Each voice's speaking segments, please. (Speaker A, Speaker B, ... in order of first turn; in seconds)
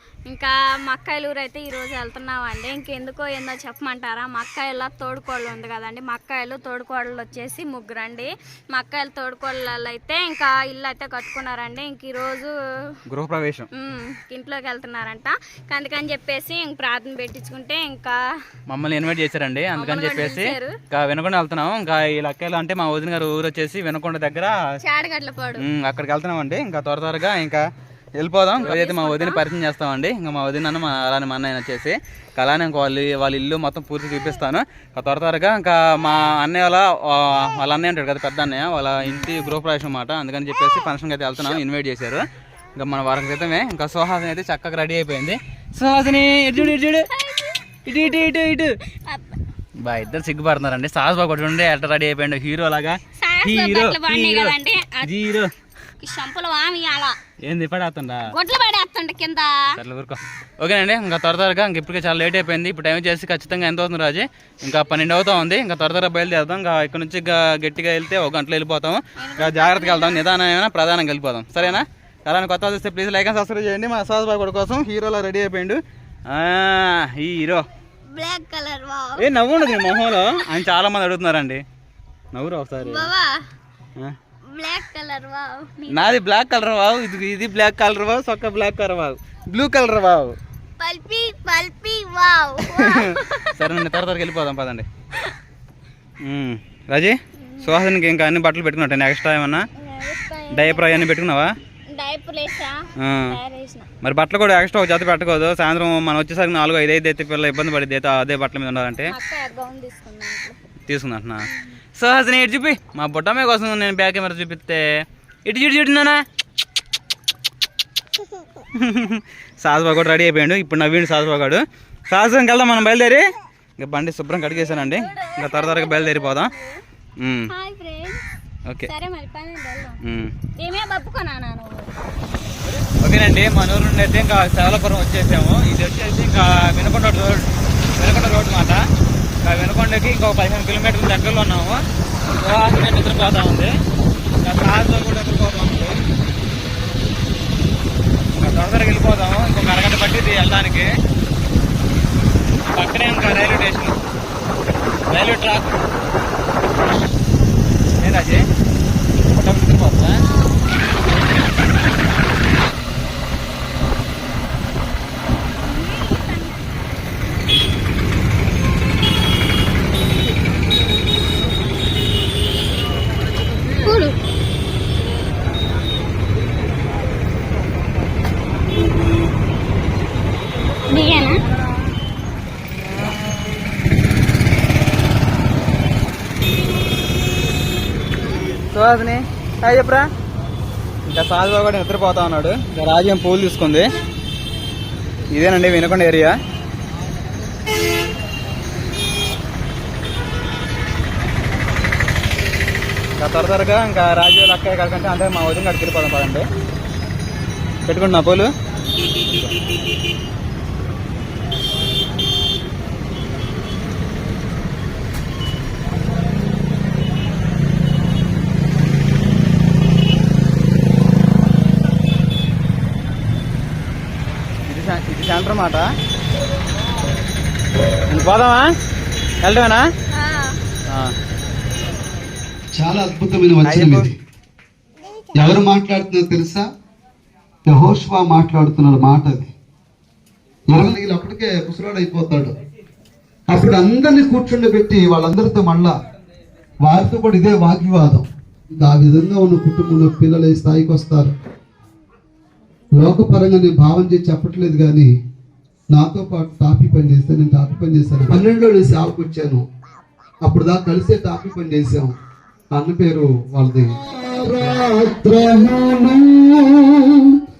Speaker A: 0.3-12.5, 13.7-18.2, 19.8-20.8, 24.8-25.7, 28.6-29.4, 47.1-48.3, 49.0-49.4, 53.2-55.1, 56.0-57.2, 58.3-59.6, 69.2-70.3, 78.1-80.5, 82.8-83.4, 84.5-86.1, 90.8-93.6, 97.4-97.8, 99.8-101.2, 101.9-103.9, 109.1-110.6, 124.5-126.8, 127.5-128.2, 128.8-130.0, 130.6-131.9, 160.2-161.0, 165.6-167.0, 173.8-174.2, 180.9-181.4, 230.1-230.6
Speaker B: 13.1-13.7, 18.7-24.6, 25.6-27.6, 28.2-42.2, 42.8-47.1, 47.9-48.7, 49.8-55.5, 57.4-58.3, 59.7-77.6, 79.2-81.6, 82.3-83.1, 85.9-90.3, 92.8-94.9, 96.2-99.7, 100.5-101.5, 103.0-103.3, 104.0-109.1, 110.9-116.2, 118.8-123.2, 123.8-126.5, 127.2-127.5, 130.0-130.3, 132.7-138.8, 139.4-141.8, 142.4-143.7, 144.4-146.0, 148.4-150.9, 152.7-154.0, 155.1-155.8, 158.0-158.4, 159.3-160.2, 188.5-190.1, 191.1-193.9, 195.3-196.3, 203.2-206.4, 207.9-208.5, 224.7-225.8, 228.1-228.7, 229.4-229.9, 230.9-231.1, 233.7-234.1
Speaker C: 232.7-234.2, 235.3-236.7, 237.7-239.5, 240.7-242.6, 243.5-245.9, 246.8-251.3, 253.0-255.1, 255.9-259.7, 260.4-262.1, 262.7-267.4